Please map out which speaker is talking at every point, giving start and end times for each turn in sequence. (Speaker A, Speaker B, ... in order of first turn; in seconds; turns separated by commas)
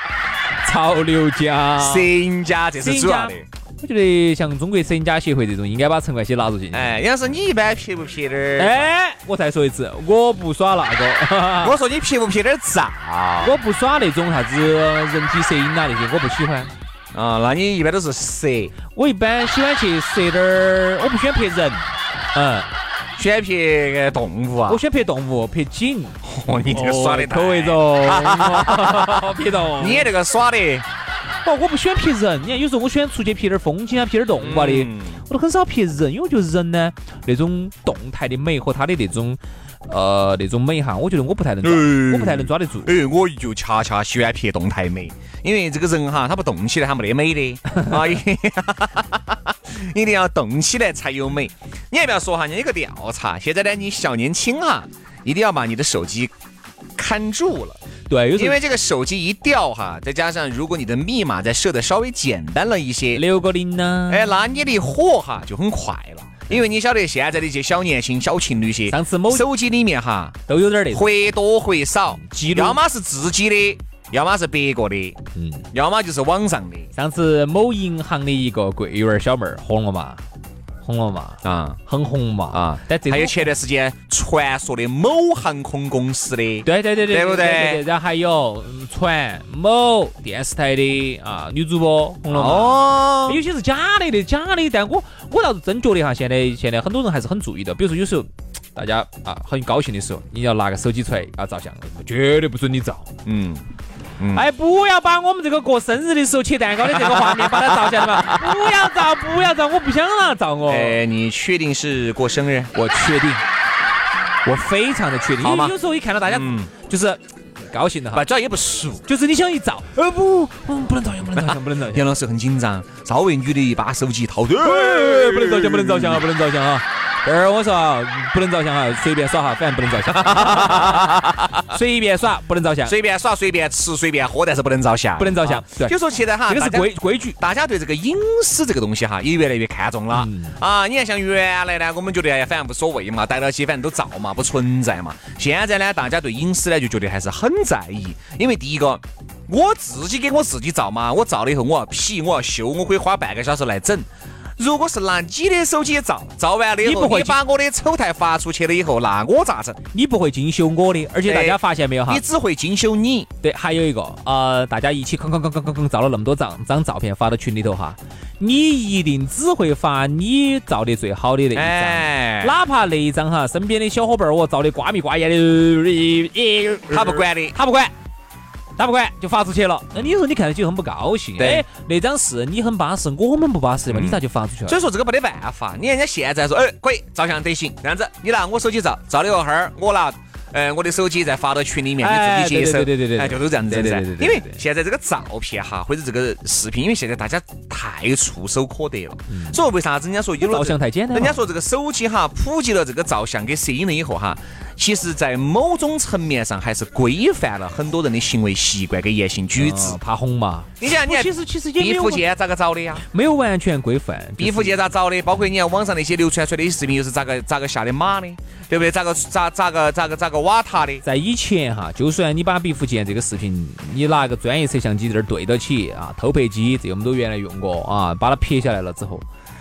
Speaker A: 0.6-2.1, Speaker B: 1.8-3.5, Speaker A: 2.8-7.0, Speaker B: 6.7-8.8, Speaker A: 8.6-11.8, Speaker B: 11.6-13.6, Speaker A: 13.4-16.7, Speaker B: 17.1-18.8, Speaker A: 18.9-22.7, Speaker B: 23.2-24.8, Speaker A: 24.7-30.1, Speaker B: 26.2-30.9, Speaker A: 31.4-42.9, Speaker B: 34.4-35.2, Speaker B: 41.6-56.3, Speaker B: 57.0-57.8, Speaker A: 58.1-58.6, Speaker B: 58.4-63.2, Speaker A: 63.1-64.3, Speaker B: 64.1-70.4, Speaker A: 68.9-69.5, Speaker A: 70.5-71.1, Speaker B: 70.9-75.2, Speaker A: 72.1-72.8, Speaker A: 75.4-75.7, Speaker B: 75.7-76.9, Speaker A: 77.0-80.2, Speaker A: 80.8-83.5, Speaker B: 81.4-81.8, Speaker B: 82.5-87.8, Speaker A: 86.6-103.1, Speaker B: 92.3-93.4, Speaker B: 103.2-103.6, Speaker B: 104.2-104.5, Speaker A: 104.3-111.0, Speaker B: 106.9-108.4, Speaker B: 110.7-112.7, Speaker A: 112.8-113.4, Speaker A: 114.5-118.3, Speaker B: 115.4-116.7, Speaker B: 118.1-119.1, Speaker A: 119.1-122.1, Speaker B: 121.4-126.2, Speaker A: 124.6-131.2, Speaker B: 130.1-131.7, Speaker A: 131.7-132.9, Speaker B: 132.8-154.1, Speaker A: 135.2-135.9, Speaker A: 136.5-137.4, Speaker A: 140.1-140.6, Speaker B: 154.6-159.8, Speaker A: 156.8-157.4, Speaker A: 159.9-162.2, Speaker B: 161.3-163.3, Speaker A: 163.4-177.9, Speaker B: 171.6-172.5, Speaker B: 176.9-177.6, Speaker A: 178.8-184.8, Speaker B: 181.4-181.7, Speaker B: 183.9-210.0, Speaker A: 192.0-194.6, Speaker A: 199.3-199.6, Speaker A: 200.4-201.4, Speaker A: 209.6-212.2, Speaker B: 210.8-213.0, Speaker A: 213.0-214.8, Speaker B: 214.4-221.0, Speaker A: 221.0-229.2